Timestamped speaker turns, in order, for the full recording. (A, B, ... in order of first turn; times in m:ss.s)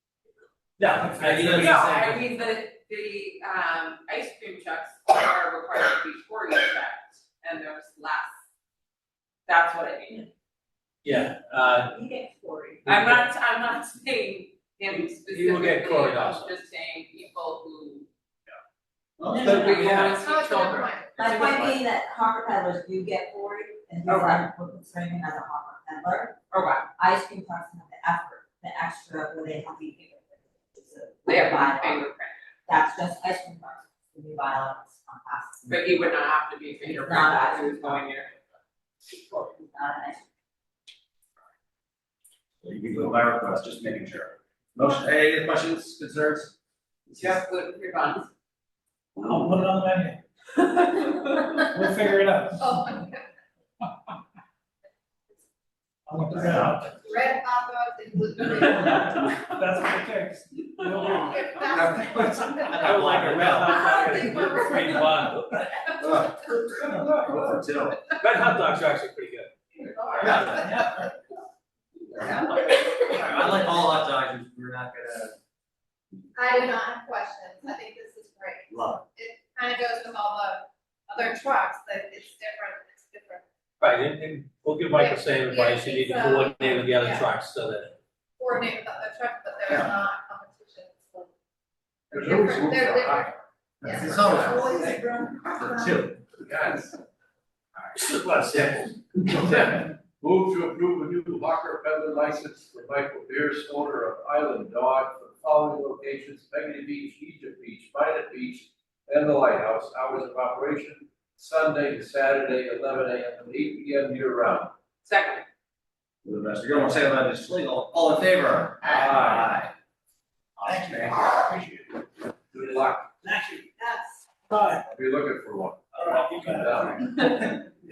0:00.8-0:02.1 A
0:01.2-0:02.1 B
0:01.6-0:08.3 C
0:09.4-0:10.3 C
0:11.0-0:11.9 A
0:11.1-0:12.8 D
0:12.8-0:13.3 A
0:12.8-0:18.1 C
0:15.3-0:16.5 A
0:19.2-0:19.7 B
0:19.3-0:21.8 C
0:19.4-0:19.8 D
0:19.4-0:20.2 A
0:20.1-0:21.1 E
0:21.2-0:26.4 D
0:24.1-0:24.5 C
0:26.5-0:26.9 C
0:27.0-0:32.1 D
0:31.2-0:32.4 C
0:32.6-0:36.0 D
0:35.7-0:38.3 C
0:36.8-0:38.0 D
0:39.1-0:40.2 D
0:42.6-0:46.6 B
0:47.1-0:47.4 B
0:47.2-0:48.3 C
0:49.2-0:50.2 F
0:51.0-0:52.9 F
0:52.6-0:53.2 E
0:56.1-0:57.0 F
0:56.3-0:59.4 E
0:56.4-0:56.8 B
0:58.6-1:01.7 F
1:01.0-1:02.8 E
1:01.7-1:04.0 B
1:02.8-1:05.8 A
1:03.6-1:05.2 E
1:06.0-1:08.0 B
1:08.2-1:09.5 A
1:09.8-1:11.0 E
1:10.2-1:11.1 B
1:10.2-1:10.6 A
1:12.2-1:15.4 B
1:16.4-1:23.4 E
1:18.7-1:19.0 B
1:23.8-1:28.0 A
1:24.9-1:27.3 E
1:28.4-1:31.3 E
1:29.7-1:29.9 B
1:32.1-1:33.4 G
1:32.1-1:36.0 E
1:33.8-1:36.2 B
1:33.9-1:34.7 G
1:36.4-1:37.0 G
1:37.9-1:39.6 A
1:39.4-1:54.7 G
1:55.0-1:55.4 C
1:56.2-1:59.7 B
1:58.9-1:59.5 G
2:00.6-2:01.2 B
2:00.6-2:02.0 F
2:02.5-2:03.1 G
2:03.2-2:04.9 F
2:04.9-2:07.1 G
2:06.0-2:07.5 F